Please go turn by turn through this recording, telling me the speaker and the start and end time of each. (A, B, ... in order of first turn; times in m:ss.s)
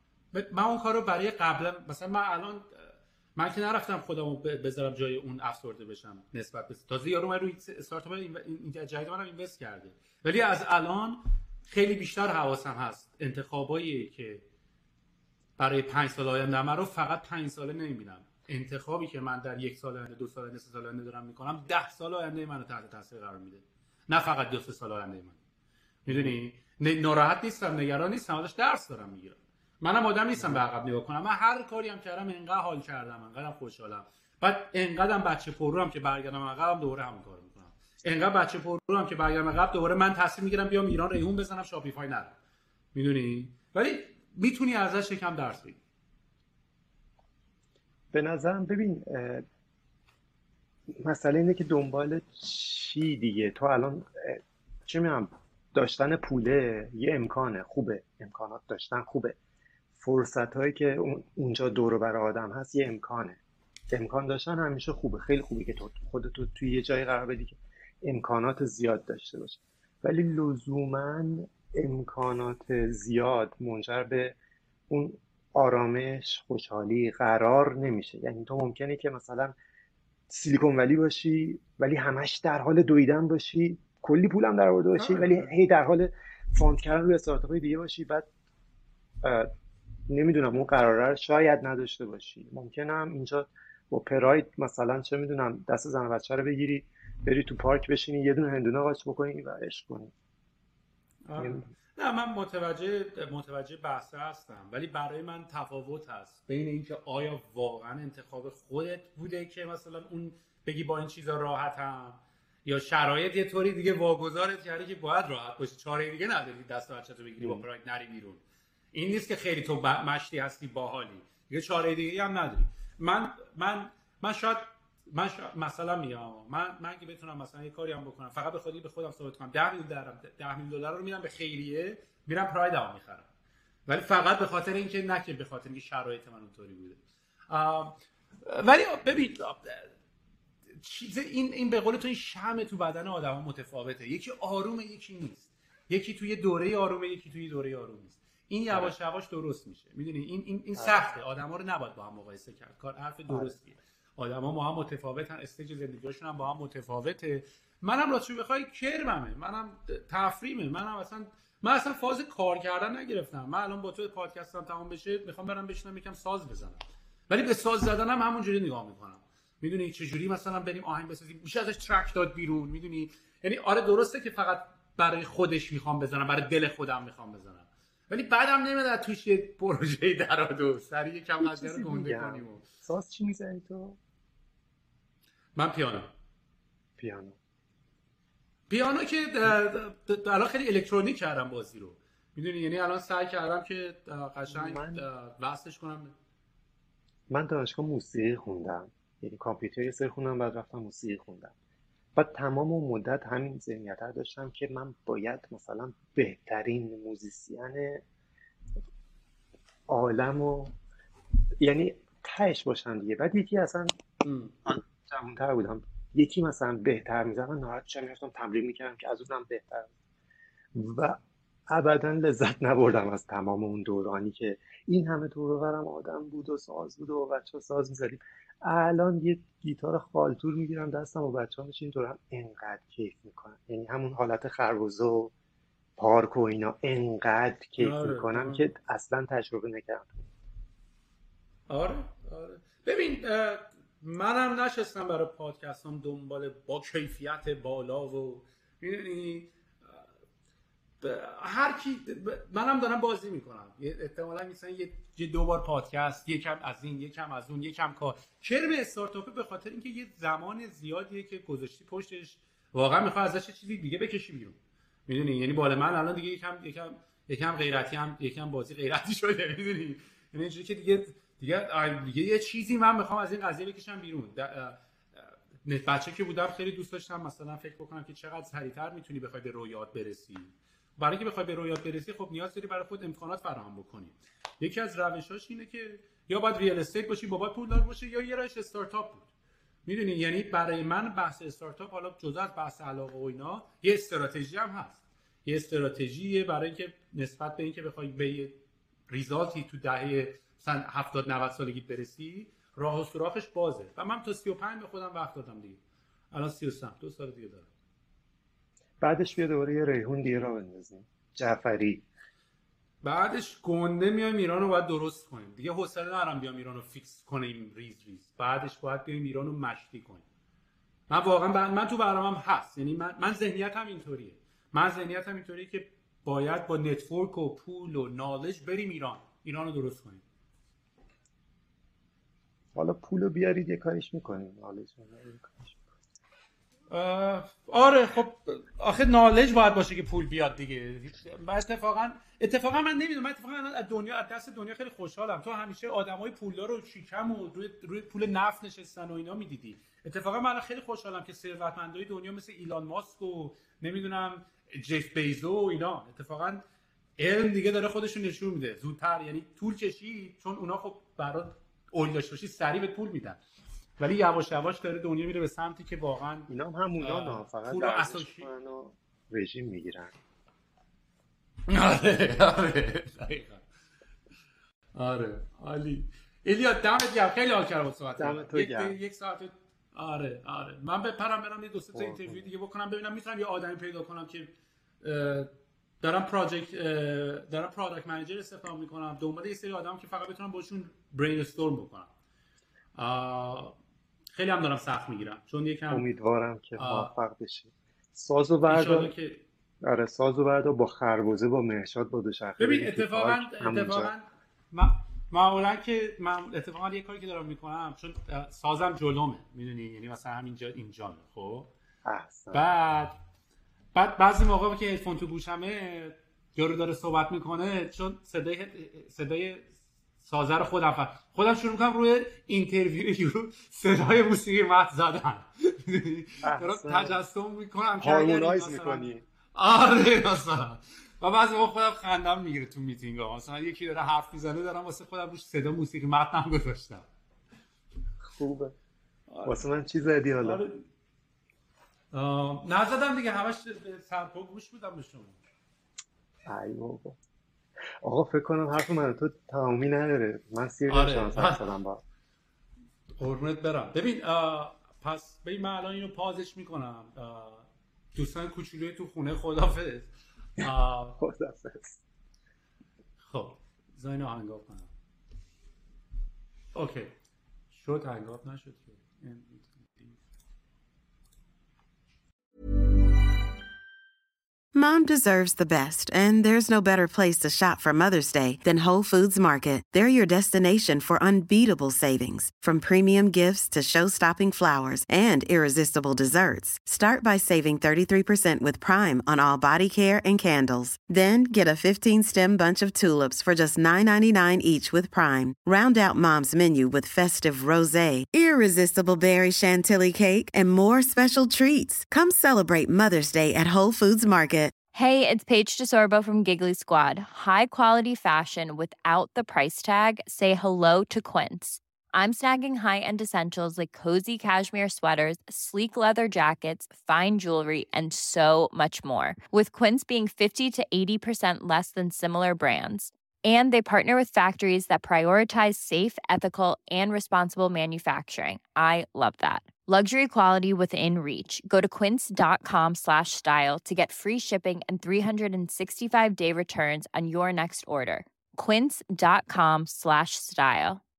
0:00.3-0:14.4 A
0:15.6-0:25.4 A
0:26.0-0:42.3 A
0:26.1-0:26.4 B
0:30.4-0:30.6 B
0:42.9-0:45.8 A
0:48.1-0:49.4 B
0:50.9-0:59.4 B
1:00.0-1:03.4 B
1:03.9-1:14.4 B
1:14.9-1:19.5 B
1:20.3-1:28.3 B
1:25.0-1:25.5 A
1:29.2-1:29.5 B
1:30.1-1:40.1 B
1:41.2-1:58.4 A
1:41.4-1:41.7 B
1:57.4-1:57.6 B
1:58.9-2:13.2 A
2:13.9-2:19.9 A
2:20.8-3:02.6 A
2:28.7-2:28.9 B
2:30.7-2:31.1 B
2:33.3-2:33.6 B
3:01.4-3:04.0 B
3:05.5-3:06.1 A
3:07.0-3:07.4 B
3:08.7-3:16.1 A
3:14.5-3:15.0 B
3:17.3-3:21.5 B
3:22.1-3:28.0 B
3:29.9-3:30.7 B
3:31.6-3:34.0 B
3:34.2-3:34.5 A
3:34.6-3:39.9 B
3:40.7-3:55.3 B
3:56.0-4:00.3 B
3:57.8-3:58.7 A
4:01.7-4:10.0 A
4:11.0-4:49.3 A
4:49.8-5:05.8 A
5:06.3-5:07.7 A
5:09.0-5:12.0 B
5:13.0-5:20.2 A
5:21.1-5:30.2 A
5:32.7-5:35.8 B
5:36.9-5:56.6 A
5:57.2-6:03.4 A
6:04.0-6:08.5 A
6:06.5-6:10.2 B
6:11.7-6:13.6 A
6:14.9-6:32.1 A
6:18.2-6:19.0 B
6:21.9-6:22.5 B
6:33.0-6:33.7 A
6:34.3-6:36.0 A
6:35.9-6:39.1 B
6:36.8-6:37.1 A
6:38.7-6:39.4 A
6:39.8-6:44.1 B
6:42.6-6:51.7 A
6:52.0-6:52.6 B
6:52.5-6:53.2 A
6:53.9-6:59.7 A
7:00.2-7:17.0 A
7:06.4-7:07.2 B
7:08.0-7:09.2 B
7:18.2-7:18.8 B
7:19.3-7:19.6 A
7:19.4-7:20.6 B
7:20.4-7:20.8 A
7:22.1-7:25.4 A
7:26.4-7:27.2 B
7:28.0-7:32.0 B
7:30.9-7:31.7 A
7:33.2-7:41.2 A
7:41.2-7:42.0 B
7:43.2-7:44.9 A
7:46.7-7:47.1 A
7:47.7-7:50.2 A
7:54.7-8:24.8 C
8:24.9-9:01.0 D